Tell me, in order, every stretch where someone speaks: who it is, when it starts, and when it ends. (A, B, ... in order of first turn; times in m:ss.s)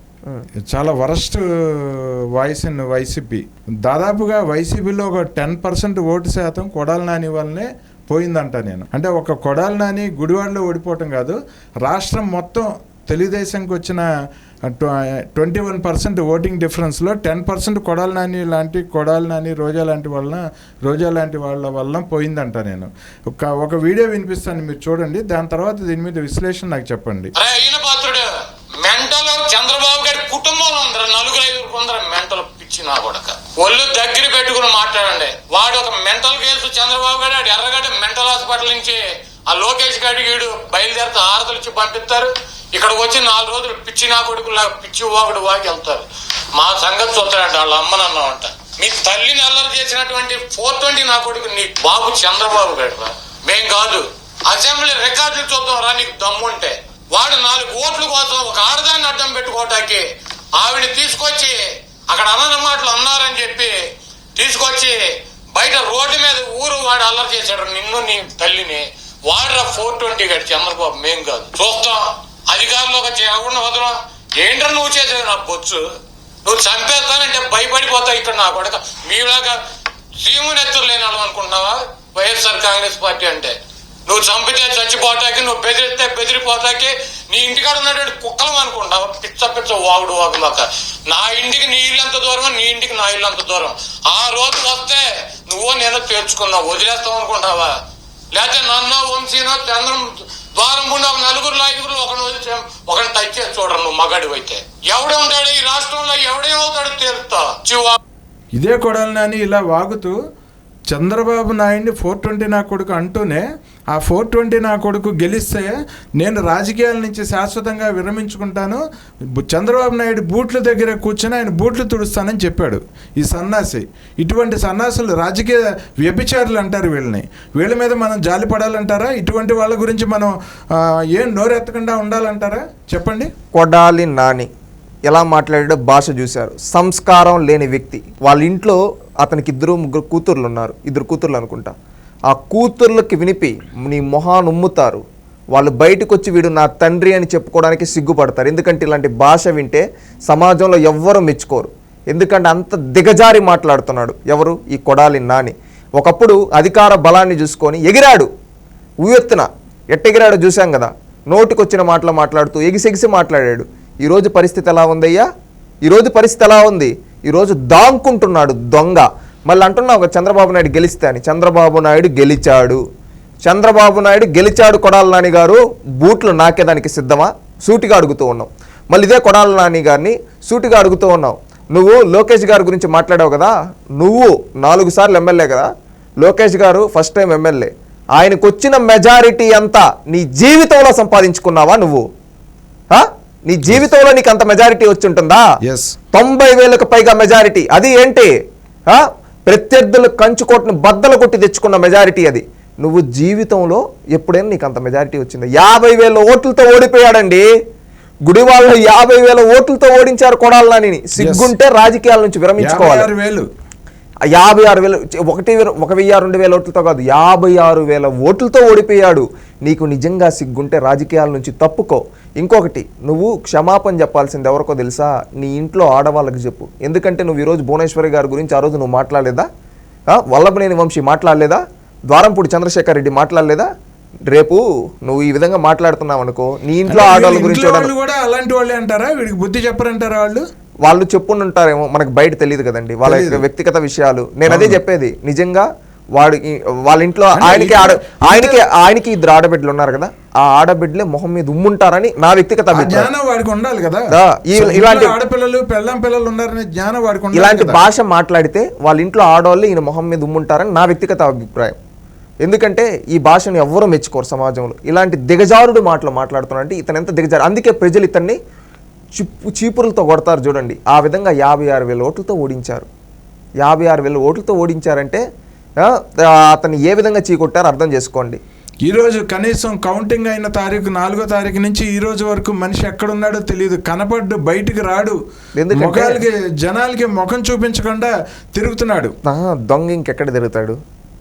0:00.6-0:14.1 A
0:14.6-0:27.3 A
0:27.4-0:28.3 B
0:28.8-0:46.1 B
0:46.6-1:03.8 B
1:04.4-1:15.8 B
1:16.4-1:19.6 B
1:20.2-1:23.6 B
1:24.1-1:37.8 B
1:38.3-1:48.0 B
1:48.6-1:50.2 A
1:50.9-1:58.8 A
1:59.4-2:13.3 A
2:13.5-2:14.5 C
2:15.1-2:21.7 C
2:22.3-2:25.0 C
2:25.5-2:38.3 C
2:39.0-2:45.2 C
2:45.8-2:52.8 C
2:53.5-3:05.7 C
3:06.2-3:12.0 C
3:12.9-3:15.4 C
3:15.6-3:16.0 A
3:16.1-3:18.3 C
3:18.9-3:27.5 C
3:28.3-3:33.1 C
3:31.2-3:31.5 A
3:32.6-3:33.5 A
3:34.3-3:49.5 C
3:50.1-3:53.7 C
3:54.3-3:57.9 C
3:56.9-4:00.4 A
4:00.8-4:13.1 C
4:03.0-4:03.4 A
4:04.5-4:04.8 A
4:07.4-4:08.6 A
4:12.7-4:17.8 A
4:14.1-4:15.2 C
4:17.4-4:21.8 C
4:22.4-4:28.4 C
4:29.2-4:32.9 C
4:33.6-4:35.2 C
4:35.8-4:38.4 C
4:38.9-4:45.2 A
4:45.6-4:46.2 C
4:45.7-4:49.1 A
4:49.2-4:50.8 C